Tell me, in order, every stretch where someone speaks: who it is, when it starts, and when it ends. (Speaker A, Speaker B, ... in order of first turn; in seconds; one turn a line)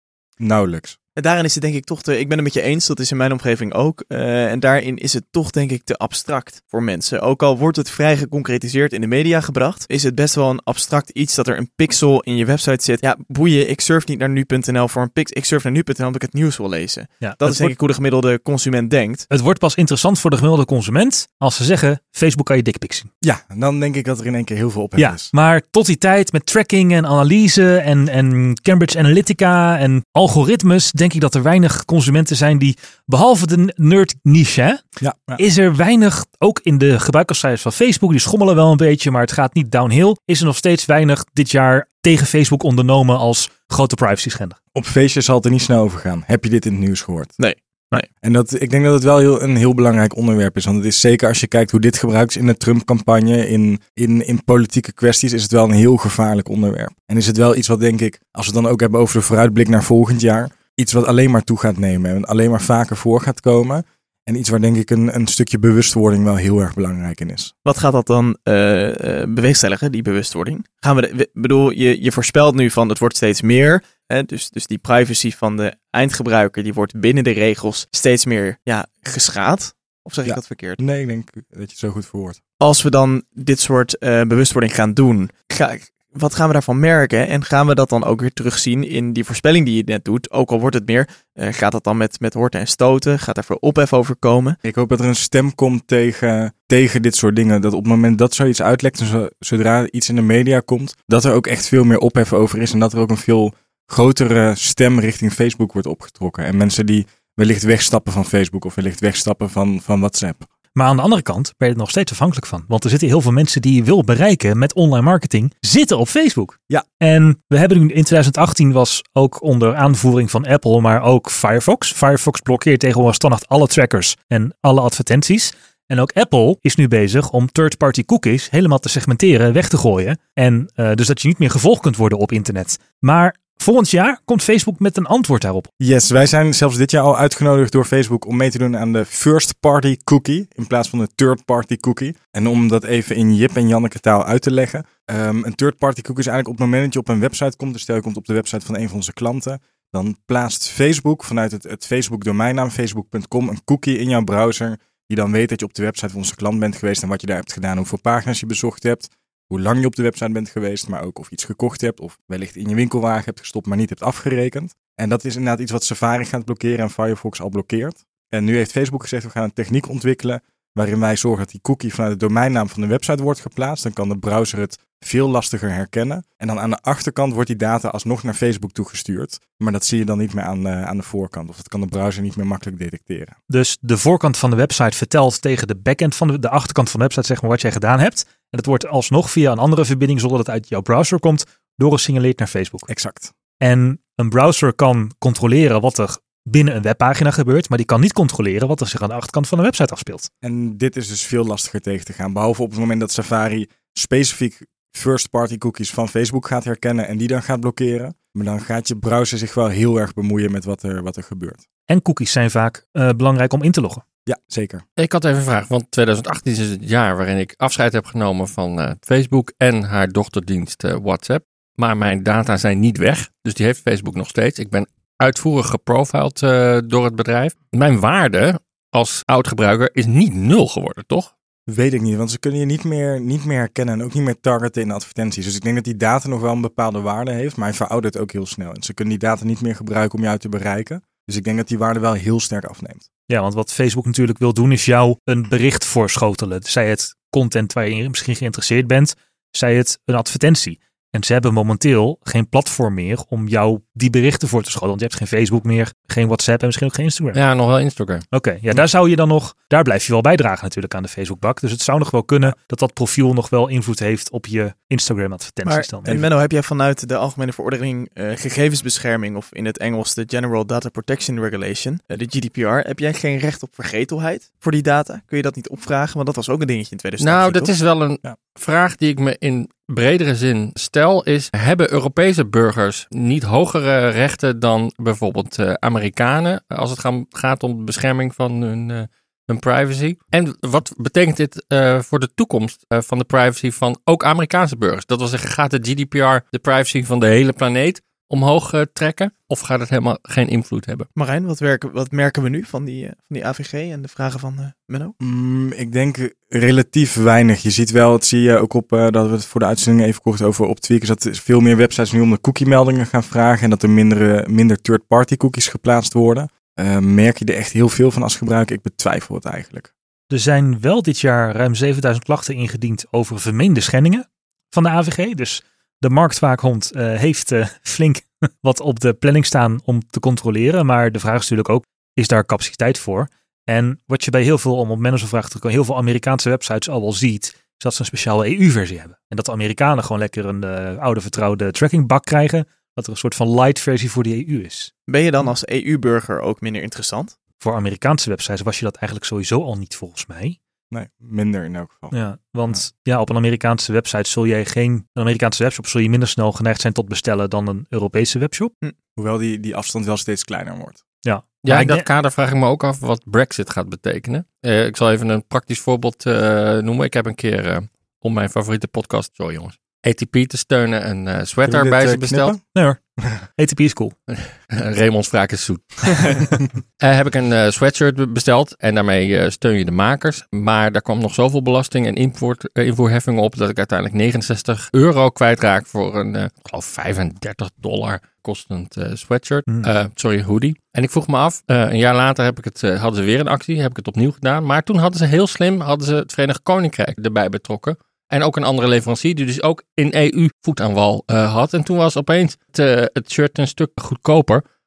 Speaker A: 0.4-0.9
Speaker B: 1.2-19.3
Speaker C: 17.2-17.7
Speaker C: 19.3-23.1
Speaker A: 23.2-25.3
Speaker C: 25.0-34.8
Speaker A: 35.0-35.4
Speaker C: 35.4-44.6
Speaker A: 44.7-47.4
Speaker B: 47.4-48.1
Speaker A: 48.2-67.5
Speaker B: 67.6-80.8
Speaker A: 80.2-82.4
Speaker B: 82.6-94.6
Speaker A: 94.6-110.5
Speaker C: 110.7-135.7
Speaker A: 135.8-183.4
Speaker C: 183.5-192.9
Speaker A: 192.9-193.3
Speaker C: 193.6-200.3
Speaker A: 200.4-211.6
Speaker C: 211.9-214.0
Speaker A: 214.3-214.8
Speaker D: 215.0-231.3
Speaker A: 231.7-243.1
Speaker C: 243.3-257.4
Speaker D: 257.3-258.2
Speaker C: 258.3-266.2
Speaker B: 265.6-277.7
Speaker D: 277.2-301.1
Speaker B: 301.2-305.1
Speaker A: 305.2-319.9
Speaker C: 320.3-344.9
Speaker B: 345.1-347.3
Speaker C: 347.6-350.6
Speaker A: 350.9-352.1
Speaker C: 352.1-358.7
Speaker A: 359.2-361.0
Speaker C: 361.2-362.1
Speaker D: 361.6-372.6
Speaker A: 371.6-372.6
Speaker C: 372.7-374.1
Speaker D: 374.3-404.6